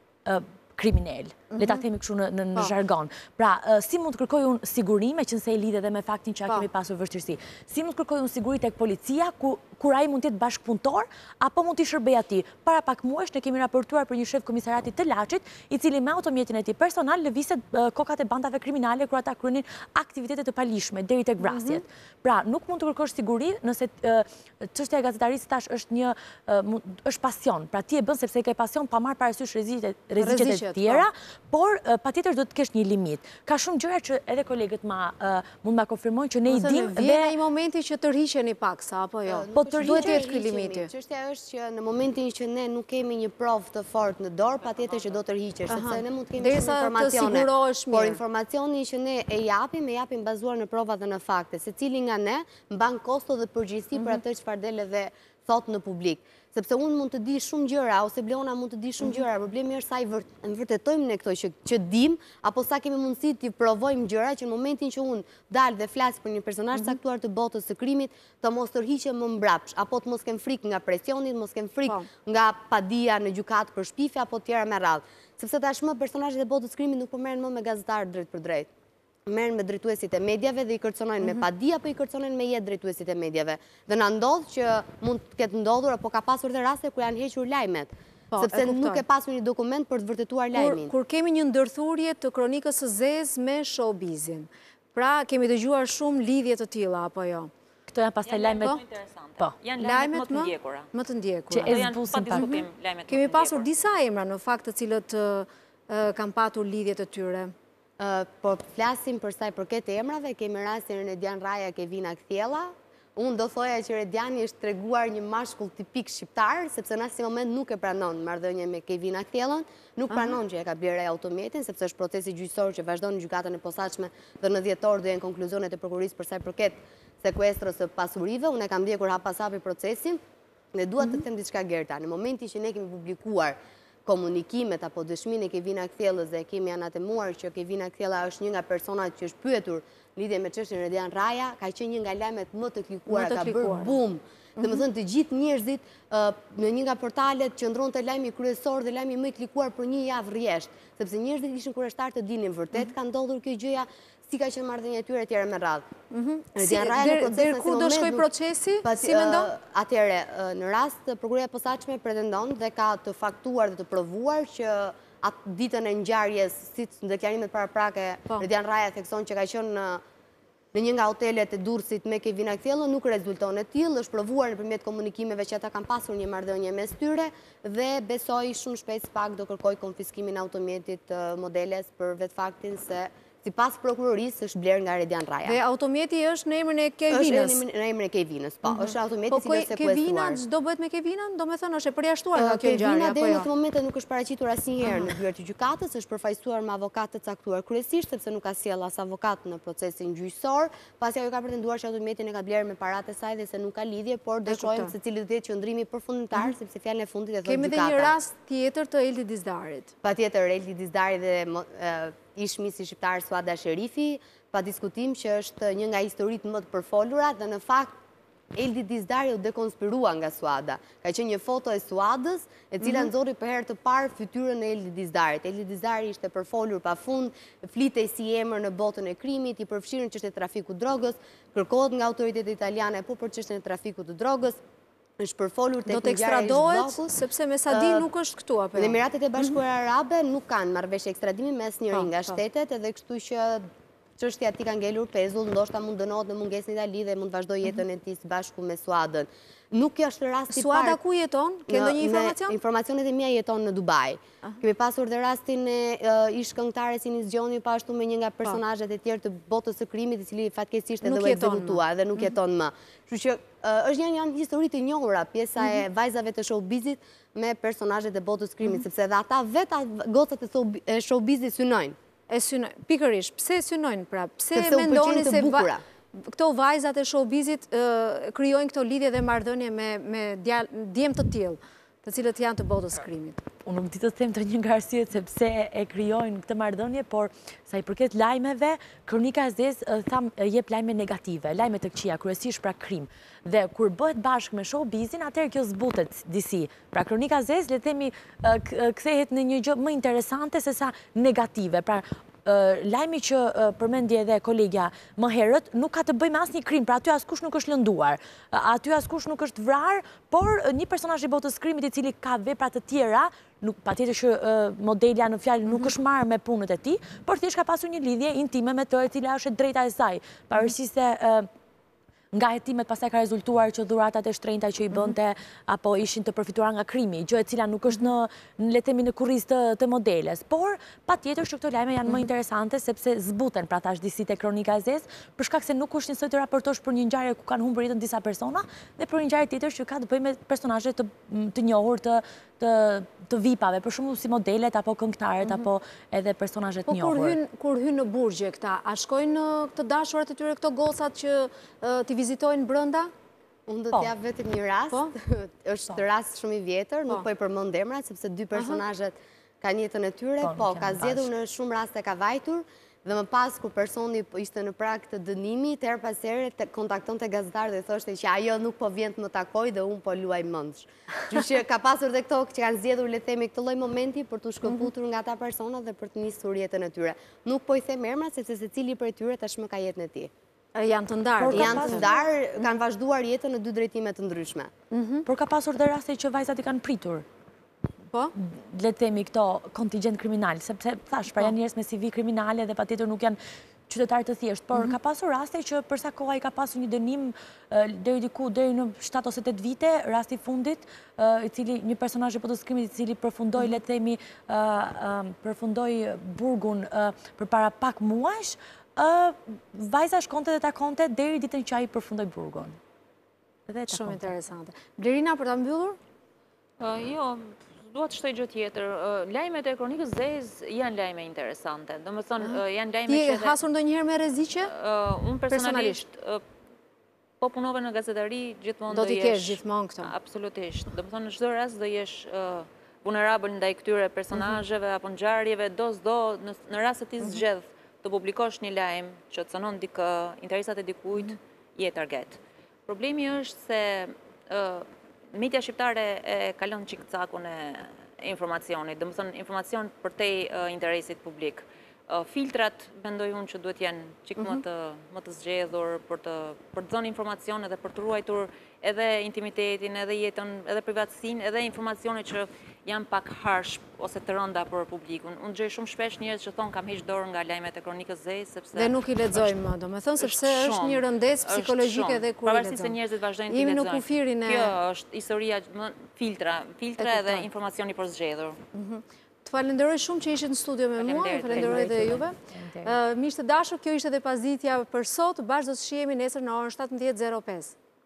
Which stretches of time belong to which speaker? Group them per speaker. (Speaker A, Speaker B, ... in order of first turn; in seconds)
Speaker A: 0.2-37.3, 39.5-40.2, 97.9-98.8, 101.6-102.5, 283.6-321.5, 322.3-347.4, 360.4-361.3, 381.4-382.1, 385.2-387.2, 388.4-393.4, 393.9-412.8, 413.7-414.3, 482.5-482.9
Speaker B: 1.5-1.8, 21.4-21.8, 30.2-31.1, 36.5-40.9, 45.7-48.2, 88.3-89.0, 90.5-97.5, 99.8-107.5, 120.1-120.4, 143.1-143.9, 144.6-144.8, 156.1-159.5, 185.4-187.6, 188.7-193.5, 204.5-204.9, 207.4-209.9, 235.9-239.4, 241.9-242.3, 250.5-252.5, 261.0-261.8, 272.3-283.4, 346.9-353.1, 358.5-358.8, 380.7-382.1, 384.9-385.3, 413.9-416.0, 422.5-424.7, 425.5-426.0, 428.9-430.1, 468.7-472.9, 473.5-474.7, 477.0-477.5, 478.7-487.8
Speaker C: 39.3-78.7, 79.3-90.9, 108.0-130.2, 130.7-155.8, 156.5-158.3, 158.8-170.0, 170.7-185.6, 187.1-190.4, 192.3-208.1, 210.0-217.9, 218.5-234.6, 235.2-237.1, 237.7-238.1, 238.7-243.6, 244.2-251.0, 251.7-271.9, 274.5-275.8, 353.7-380.3, 381.5-384.7
Speaker D: 98.2-100.9, 101.6-103.7, 416.8-423.6, 424.6-426.4, 427.4-469.5, 470.2-478.6, 481.0-482.2